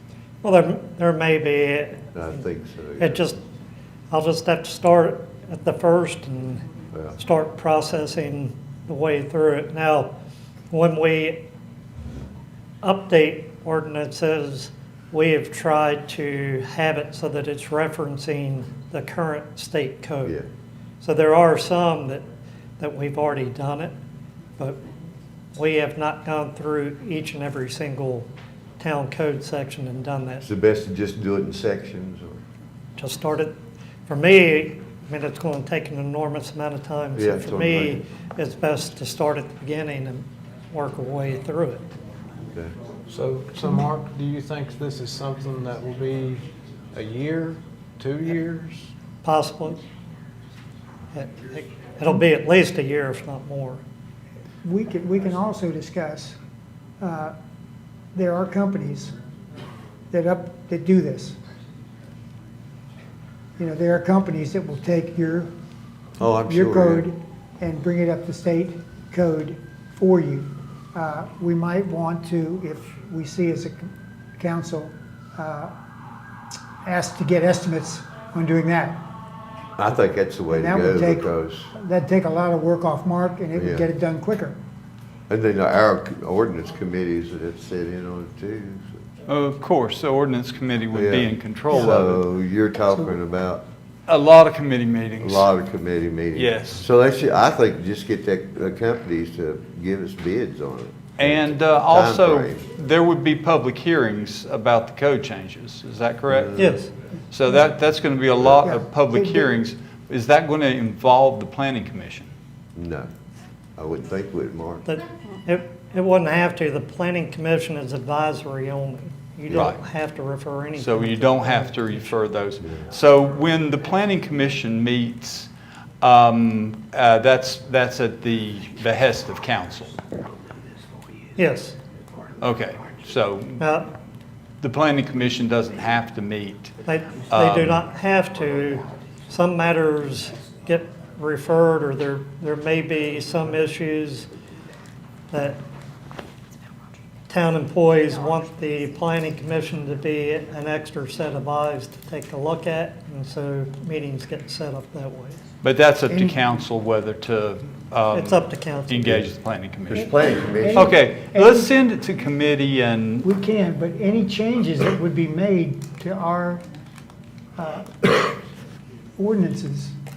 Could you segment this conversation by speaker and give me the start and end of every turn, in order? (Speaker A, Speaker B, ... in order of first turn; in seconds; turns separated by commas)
Speaker A: 0.4-2.4, Speaker B: 2.1-3.3, Speaker A: 3.0-3.4, Speaker A: 4.1-6.6, Speaker B: 6.9-7.2, Speaker A: 7.2-10.1, Speaker A: 10.7-11.5, Speaker A: 12.8-20.3, Speaker A: 21.0-22.2, Speaker A: 22.8-23.9, Speaker A: 25.5-30.4, Speaker B: 30.4-32.4, Speaker A: 33.0-41.9, Speaker B: 37.1-38.0, Speaker C: 43.1-48.9, Speaker A: 49.2-49.8, Speaker A: 51.1-53.8, Speaker D: 54.6-56.4, Speaker D: 57.0-57.3, Speaker D: 58.1-59.1, Speaker D: 60.1-61.4, Speaker D: 63.6-65.5, Speaker B: 66.2-67.1, Speaker D: 66.5-75.7, Speaker D: 76.8-79.0, Speaker B: 79.8-81.7, Speaker D: 80.5-84.6, Speaker B: 83.5-83.8, Speaker B: 85.3-89.0, Speaker E: 89.3-92.2, Speaker B: 90.9-93.6, Speaker E: 94.1-95.5, Speaker B: 95.2-102.7, Speaker E: 96.3-96.9, Speaker E: 101.2-106.8, Speaker B: 106.3-106.8, Speaker A: 106.6-106.9, Speaker E: 107.3-112.3, Speaker D: 108.6-109.5, Speaker B: 112.8-113.1, Speaker B: 113.8-114.8, Speaker A: 114.8-122.2, Speaker E: 119.5-119.8, Speaker E: 120.8-125.5, Speaker E: 126.0-129.9, Speaker A: 131.3-131.7, Speaker E: 132.4-133.7, Speaker A: 133.6-133.9, Speaker E: 134.6-137.8, Speaker A: 136.9-144.3, Speaker A: 145.3-145.6, Speaker A: 147.3-155.4, Speaker E: 155.6-160.1, Speaker D: 156.1-156.4, Speaker A: 158.1-158.9, Speaker B: 159.0-159.3, Speaker B: 159.9-160.9, Speaker D: 159.9-161.7, Speaker E: 160.7-163.3, Speaker D: 163.2-166.6, Speaker D: 167.6-168.4, Speaker D: 169.2-169.9